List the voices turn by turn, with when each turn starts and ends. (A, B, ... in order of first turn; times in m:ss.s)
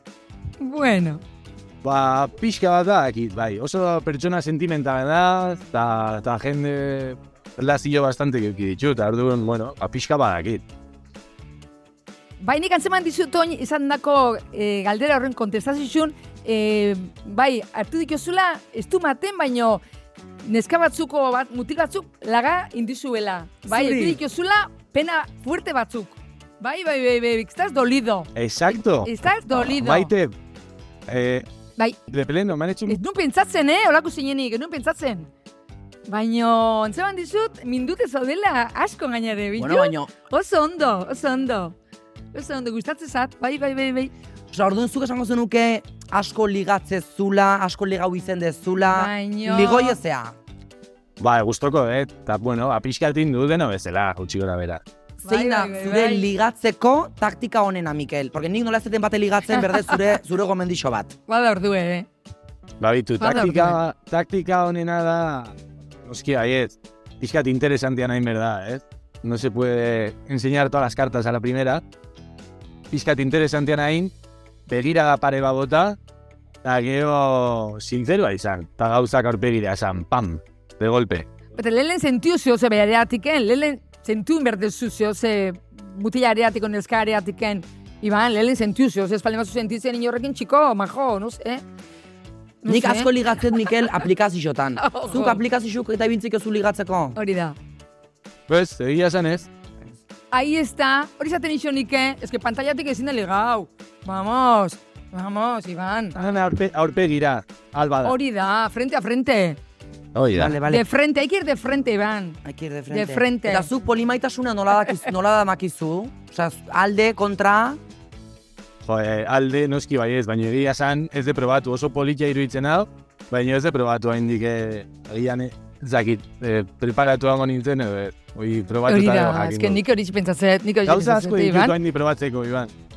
0:00.6-0:01.2 A
0:01.8-0:10.6 B
0:12.4-0:19.8 A
0:20.4-0:28.3 A
0:23.7-0:24.2 C
0:28.4-0:30.3 B
0:29.0-0:30.1 A
0:31.1-0:31.4 B
0:32.1-0:33.0 B
0:32.9-0:35.3 A
0:36.1-0:41.7 A
0:39.6-0:40.1 C
0:42.3-0:44.1 A
0:44.5-0:50.4 C
0:48.9-0:50.0 A
0:51.2-0:54.8 B
0:55.2-0:56.3 A
0:55.2-1:01.1 C
0:59.5-1:00.0 A
1:01.3-1:02.1 A
1:02.8-1:11.8 B
1:03.2-1:03.8 A
1:12.9-1:14.1 B
1:14.7-1:16.0 B
1:16.6-1:21.2 B
1:21.5-1:31.6 A
1:32.6-1:33.8 A
1:32.7-1:37.2 C
1:34.8-1:35.4 A
1:37.2-1:37.6 A
1:38.5-1:39.5 B
1:40.3-1:46.2 A
1:46.2-1:48.1 B
1:48.0-1:49.6 A
1:50.1-1:50.6 B
1:50.3-1:50.8 C
1:50.6-1:53.7 A
1:52.4-1:57.8 C
1:58.8-2:09.8 B
2:08.9-2:11.8 A
2:10.8-2:12.7 B